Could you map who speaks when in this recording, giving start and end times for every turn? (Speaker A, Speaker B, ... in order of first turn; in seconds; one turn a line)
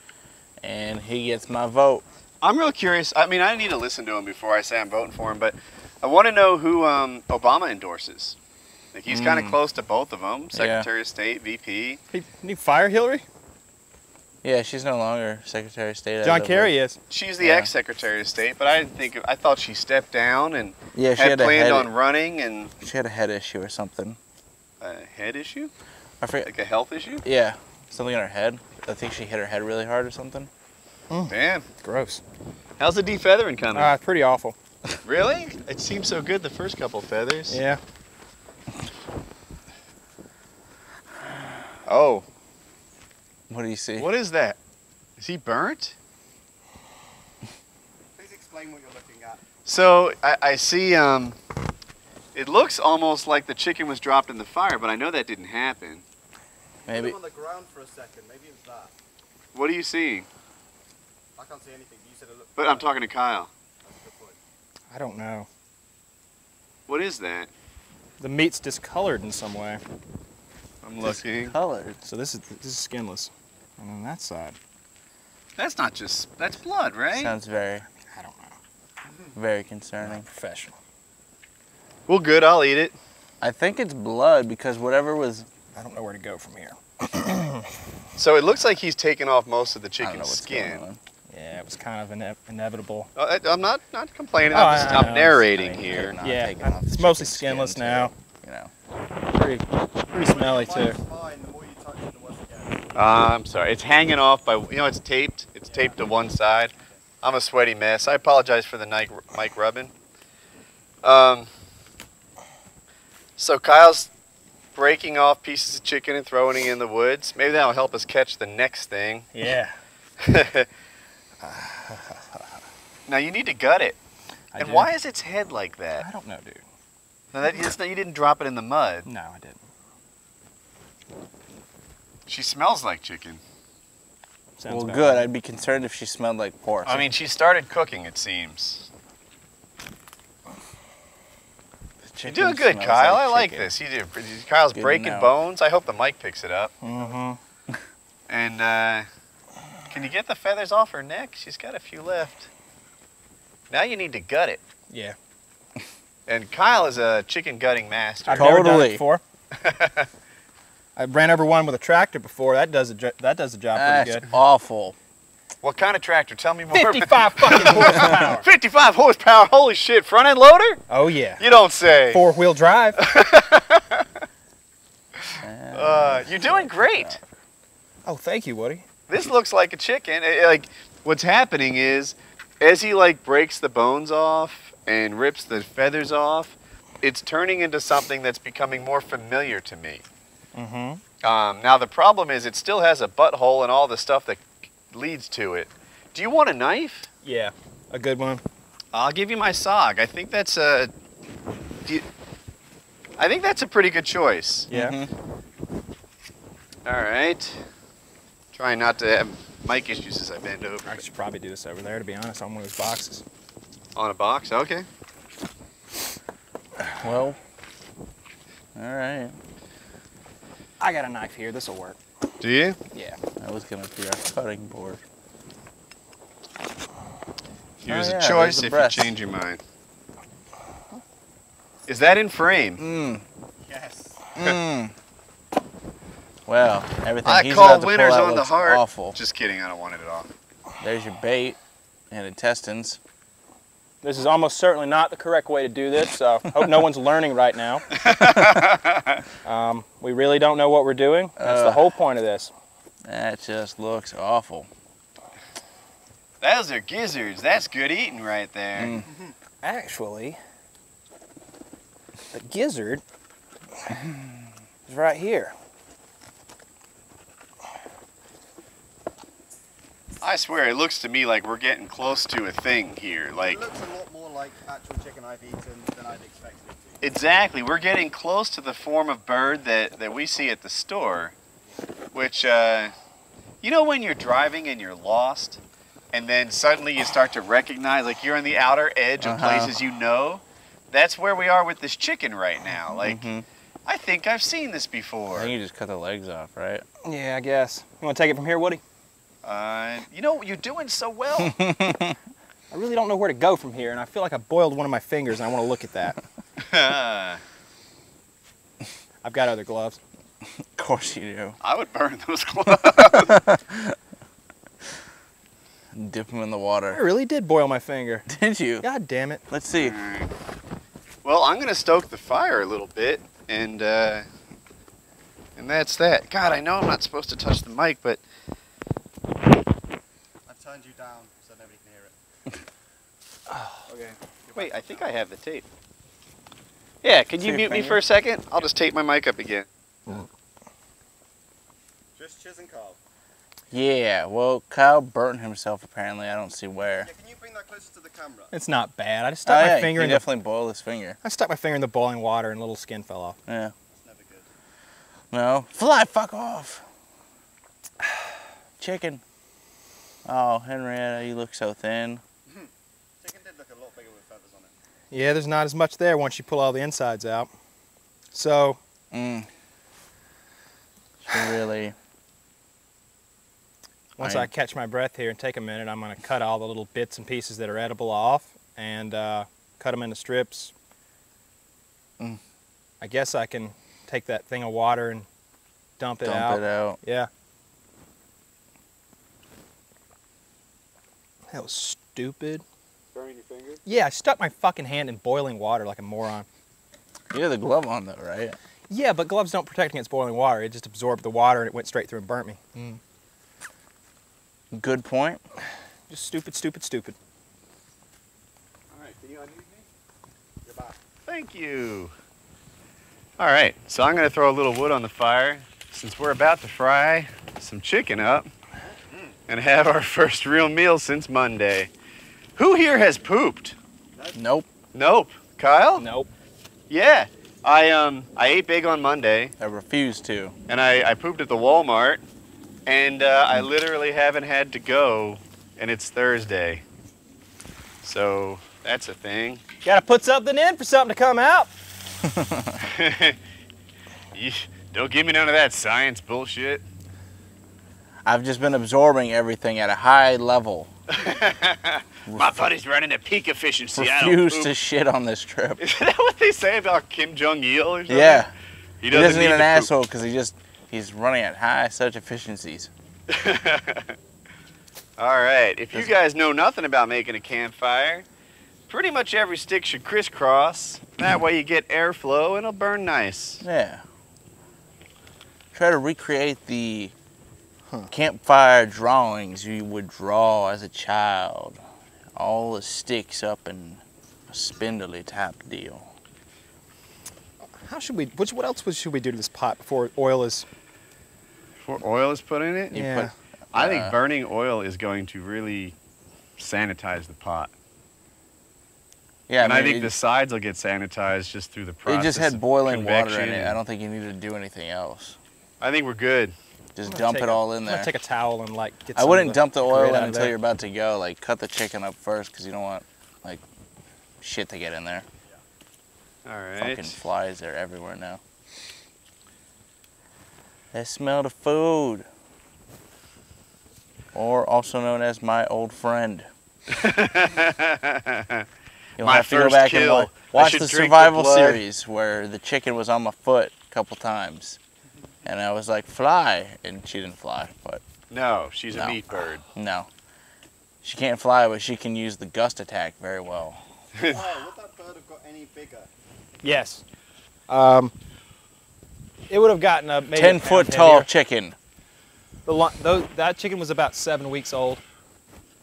Speaker A: 0.6-2.0
Speaker B: 2.4-8.4
Speaker B: 8.9-12.0
Speaker A: 9.1-9.6
Speaker A: 10.5-10.9
Speaker C: 12.1-13.2
Speaker A: 14.4-16.7
Speaker C: 16.2-17.0
Speaker B: 17.1-22.7
Speaker A: 17.4-17.7
Speaker A: 20.9-21.9
Speaker A: 22.8-24.2
Speaker B: 24.8-25.7
Speaker A: 26.2-26.5
Speaker B: 26.4-27.2
Speaker A: 27.2-30.5
Speaker C: 31.1-32.2
Speaker B: 31.3-31.7
Speaker B: 32.8-33.9
Speaker C: 33.7-34.5
Speaker B: 35.0-37.6
Speaker C: 37.5-37.8
Speaker B: 41.9-42.2
Speaker A: 43.5-44.1
Speaker B: 44.0-44.6
Speaker B: 45.2-46.0
Speaker D: 48.2-49.4
Speaker B: 49.6-51.4
Speaker B: 52.4-56.0
Speaker D: 56.9-58.9
Speaker A: 56.9-57.1
Speaker B: 59.5-60.3
Speaker D: 61.4-62.9
Speaker B: 62.6-63.5
Speaker D: 63.8-64.4
Speaker C: 64.9-65.5
Speaker B: 66.9-67.5
Speaker C: 68.2-69.8
Speaker B: 70.8-71.6
Speaker A: 71.0-72.0
Speaker C: 72.0-74.6
Speaker B: 75.6-77.3
Speaker A: 77.1-77.8
Speaker C: 77.9-78.6
Speaker A: 79.3-80.3
Speaker C: 80.0-80.8
Speaker B: 82.1-83.0
Speaker A: 83.4-85.5
Speaker C: 85.8-87.7
Speaker B: 88.2-90.9
Speaker A: 90.0-91.0
Speaker C: 91.3-93.1
Speaker B: 93.2-96.2
Speaker C: 94.5-95.4
Speaker A: 95.4-98.7
Speaker C: 96.2-98.1
Speaker C: 99.3-101.0
Speaker D: 100.2-103.0
Speaker B: 103.0-109.9
Speaker D: 105.7-106.1
Speaker B: 111.0-111.5
Speaker B: 113.4-114.1
Speaker B: 114.8-119.3
Speaker C: 119.3-119.7
Speaker B: 120.2-120.7
Speaker C: 121.4-122.4
Speaker B: 123.1-124.0
Speaker C: 124.5-124.9
Speaker B: 124.6-126.1
Speaker C: 126.0-126.6
Speaker B: 127.3-129.1
Speaker C: 129.1-129.6
Speaker B: 132.3-133.4
Speaker C: 134.6-135.3
Speaker A: 134.7-137.1
Speaker B: 136.8-138.9
Speaker A: 142.0-143.7
Speaker B: 142.2-146.7
Speaker A: 144.7-145.3
Speaker C: 146.8-147.4
Speaker B: 148.3-149.1
Speaker B: 149.9-152.5
Speaker B: 153.7-154.6
Speaker C: 154.9-155.2
Speaker B: 156.3-158.7
Speaker C: 158.2-159.2
Speaker A: 158.3-159.0
Speaker B: 159.6-160.1
Speaker C: 161.0-164.2
Speaker A: 163.8-165.0
Speaker B: 165.6-170.8
Speaker C: 166.7-168.5
Speaker C: 170.9-171.4
Speaker B: 171.4-172.2
Speaker C: 172.1-173.0
Speaker B: 173.0-174.2
Speaker B: 175.3-177.2
Speaker A: 175.4-177.2
Speaker C: 178.1-178.8
Speaker B: 179.1-190.0
Speaker C: 190.6-191.0
Speaker B: 191.2-197.1
Speaker C: 197.2-198.4
Speaker B: 198.9-200.9
Speaker B: 203.2-204.7
Speaker C: 204.7-205.0
Speaker A: 204.7-205.1
Speaker B: 206.8-207.6
Speaker B: 208.5-211.0
Speaker C: 210.9-213.2
Speaker B: 213.9-214.9
Speaker A: 217.0-217.4
Speaker A: 218.8-219.3
Speaker C: 220.8-222.0
Speaker B: 222.4-222.8
Speaker C: 222.9-223.2
Speaker A: 223.4-225.0
Speaker B: 227.8-229.6
Speaker A: 227.9-229.1
Speaker B: 231.9-232.8
Speaker A: 232.8-233.2
Speaker D: 233.6-234.2
Speaker A: 234.3-234.9
Speaker A: 236.5-239.2
Speaker B: 237.2-240.3
Speaker A: 240.8-241.6
Speaker A: 242.1-243.0
Speaker C: 244.0-247.9
Speaker B: 247.9-249.2
Speaker C: 249.4-252.5
Speaker A: 251.4-251.9
Speaker A: 253.1-254.7
Speaker B: 256.4-259.0
Speaker A: 258.8-259.1
Speaker C: 259.6-260.4
Speaker C: 262.3-263.0
Speaker C: 264.9-265.5
Speaker B: 270.2-273.6
Speaker D: 273.4-277.0
Speaker B: 277.0-281.4
Speaker B: 282.1-282.9
Speaker B: 283.6-285.6
Speaker B: 286.1-293.3
Speaker A: 289.2-289.8
Speaker A: 292.9-293.4
Speaker B: 293.9-295.5
Speaker A: 295.3-296.9
Speaker C: 297.0-298.8
Speaker B: 299.4-301.6
Speaker A: 301.4-302.2
Speaker C: 302.7-306.2
Speaker B: 306.6-307.4
Speaker C: 309.2-310.0
Speaker A: 310.8-311.6
Speaker B: 311.6-313.4
Speaker A: 312.7-314.0
Speaker A: 315.9-317.0
Speaker C: 316.9-318.3
Speaker A: 318.3-318.9
Speaker C: 318.8-319.4
Speaker A: 319.5-320.0
Speaker B: 319.7-320.3
Speaker B: 321.2-324.3
Speaker B: 325.6-328.2
Speaker D: 330.5-332.1
Speaker C: 333.5-333.8
Speaker D: 333.9-335.1
Speaker B: 334.6-335.7
Speaker B: 337.0-339.7
Speaker A: 337.4-338.0
Speaker D: 342.2-343.0
Speaker A: 343.7-347.1
Speaker D: 347.0-348.6
Speaker C: 348.5-350.2
Speaker A: 349.4-351.2
Speaker C: 351.2-353.4
Speaker A: 353.5-353.7
Speaker D: 353.9-354.5
Speaker A: 355.3-356.8
Speaker A: 358.8-359.2
Speaker A: 360.2-362.2
Speaker D: 363.2-364.7
Speaker C: 365.1-367.5
Speaker C: 368.3-368.8
Speaker A: 369.1-369.5
Speaker A: 371.3-372.0
Speaker C: 374.2-380.7
Speaker A: 374.2-374.5
Speaker C: 383.0-385.3
Speaker C: 386.0-387.3
Speaker A: 386.2-387.0
Speaker C: 391.5-392.6
Speaker D: 393.1-393.8
Speaker C: 393.9-396.5
Speaker A: 397.3-398.6
Speaker C: 398.9-403.0
Speaker A: 404.7-405.4
Speaker C: 406.1-407.2
Speaker D: 408.9-409.9
Speaker D: 410.6-411.0
Speaker B: 411.3-412.1
Speaker B: 413.4-418.5
Speaker B: 419.5-421.9
Speaker B: 422.6-423.8
Speaker A: 424.4-424.7
Speaker B: 424.9-426.1
Speaker C: 426.0-426.3
Speaker B: 426.9-429.5
Speaker A: 429.6-430.6
Speaker B: 430.7-432.2
Speaker B: 432.9-436.8
Speaker B: 438.0-439.6
Speaker C: 439.8-441.7
Speaker A: 442.2-442.8
Speaker B: 442.8-443.4
Speaker B: 444.3-446.9
Speaker A: 448.2-450.9
Speaker B: 451.1-454.7
Speaker A: 452.3-452.7
Speaker A: 453.9-455.8
Speaker B: 455.8-458.5
Speaker A: 458.1-458.5
Speaker B: 459.0-459.9
Speaker A: 459.1-462.9
Speaker B: 463.3-464.2
Speaker B: 465.2-468.3
Speaker B: 468.9-473.6
Speaker A: 473.6-474.0
Speaker A: 475.7-477.1
Speaker A: 478.1-481.8
Speaker A: 482.4-486.1
Speaker C: 487.8-490.7
Speaker B: 491.8-493.0
Speaker C: 492.9-493.3
Speaker A: 492.9-494.2
Speaker B: 493.7-495.9
Speaker B: 496.6-497.7
Speaker A: 499.5-500.1
Speaker B: 499.6-503.8
Speaker A: 502.1-505.4
Speaker B: 505.8-506.6
Speaker A: 507.0-508.1
Speaker C: 507.1-510.5
Speaker A: 509.2-513.6
Speaker A: 514.4-515.3
Speaker B: 516.5-517.2
Speaker A: 516.8-518.4
Speaker A: 520.9-522.3
Speaker A: 524.3-526.5
Speaker B: 526.9-528.7
Speaker B: 529.2-531.8
Speaker A: 529.2-534.8
Speaker A: 535.4-538.0
Speaker B: 538.3-539.6
Speaker A: 538.9-540.1
Speaker A: 541.0-543.8
Speaker B: 544.1-544.4
Speaker D: 544.3-546.1
Speaker C: 546.6-547.0
Speaker C: 547.7-548.1
Speaker C: 549.5-551.3
Speaker A: 550.3-551.8
Speaker C: 552.7-555.0